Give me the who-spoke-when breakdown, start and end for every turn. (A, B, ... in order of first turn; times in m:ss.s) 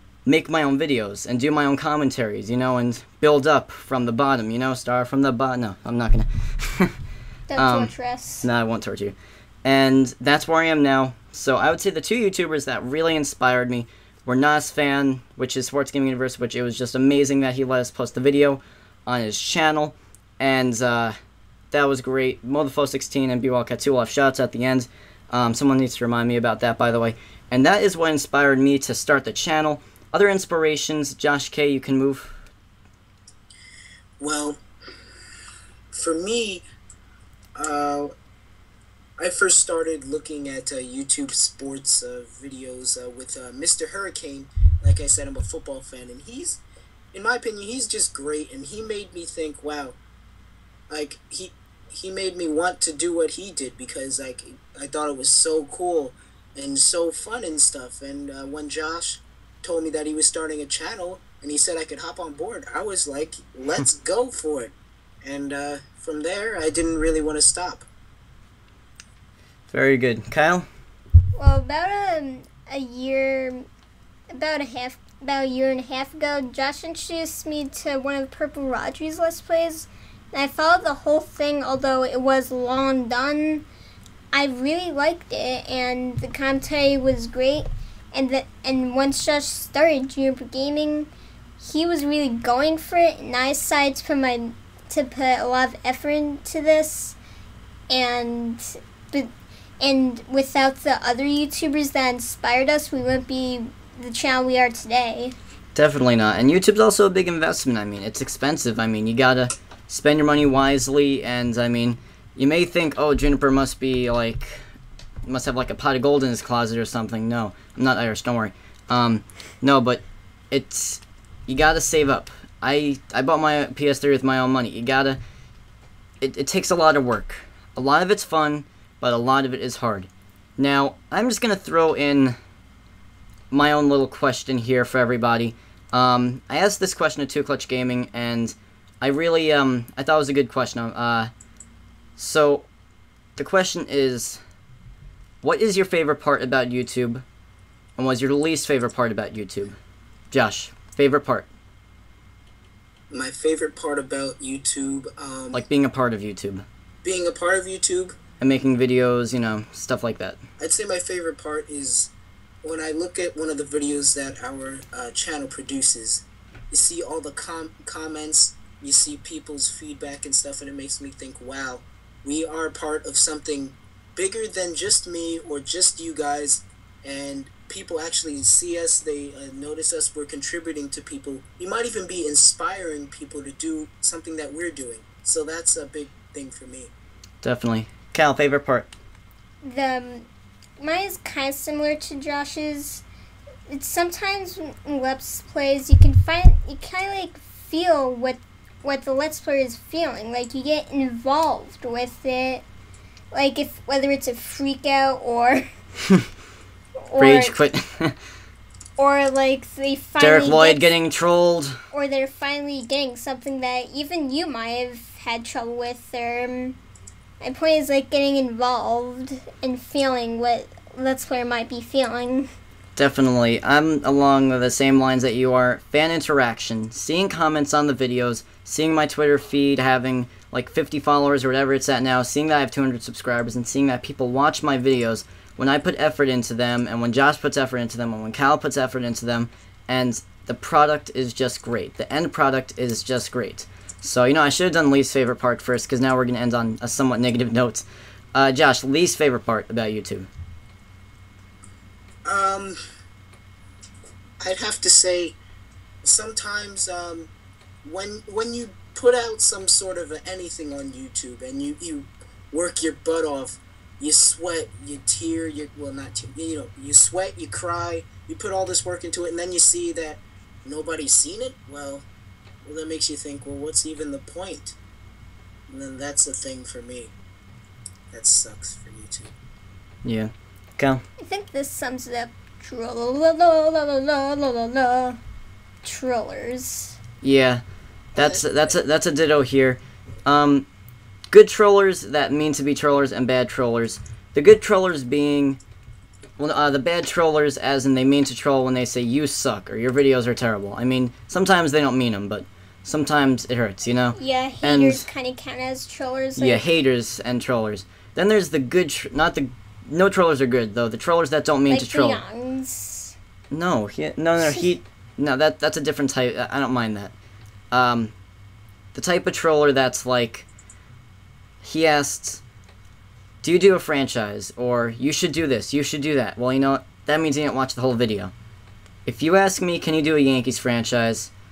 0:00.3-0:06.9 A
0:07.5-0:08.5 B
0:07.6-0:21.2 A
0:21.7-0:32.3 A
0:34.2-0:34.6 C
0:35.9-0:36.6 C
0:37.6-0:38.1 C
0:39.2-0:46.6 C
0:47.1-0:50.0 C
0:50.9-1:07.9 C
1:09.7-1:10.7 A
1:11.4-1:13.7 B
1:14.3-1:23.7 B
1:24.3-1:31.1 B
1:31.6-1:37.2 B
1:37.9-1:39.3 B
1:39.8-1:45.4 B
1:45.8-1:54.6 A
1:55.2-2:05.2 A
2:06.2-2:12.4 A
2:13.5-2:21.3 A
2:22.2-2:22.7 A
2:23.4-2:24.4 A
2:25.4-2:27.2 A
2:28.0-2:29.8 A
2:30.3-2:31.5 A
2:33.1-2:35.6 C
2:35.5-2:36.6 A
2:37.0-2:38.2 C
2:38.4-2:40.4 A
2:40.6-2:42.1 C
2:42.6-3:06.9 C
3:07.4-3:08.9 A
3:09.6-3:10.3 B
3:10.8-3:13.0 B
3:13.7-3:22.6 B
3:23.3-3:25.7 B
3:27.0-3:27.6 B
3:27.2-3:28.2 A
3:29.0-3:31.0 B
3:30.2-3:31.8 A
3:31.9-3:36.8 B
3:37.4-3:42.5 B
3:43.0-4:10.3 A
4:12.2-4:12.8 C
4:14.4-4:15.4 C
4:16.0-4:17.3 C
4:17.8-4:32.1 C
4:32.6-4:34.8 C
4:35.7-4:37.1 C
4:38.1-4:39.3 C
4:40.0-4:41.0 A
4:41.2-4:45.2 B
4:45.8-4:47.0 B
4:47.2-4:47.6 A
4:48.2-4:50.7 A
4:48.2-4:48.8 C
4:51.3-4:55.6 A
4:56.4-5:05.0 A
5:04.2-5:06.7 B
5:06.4-5:12.2 A
5:11.7-5:13.2 B
5:13.5-5:17.1 A
5:17.7-5:18.1 A
5:18.9-5:20.5 A
5:21.6-5:22.4 A
5:23.4-5:28.3 A
5:29.1-5:31.3 A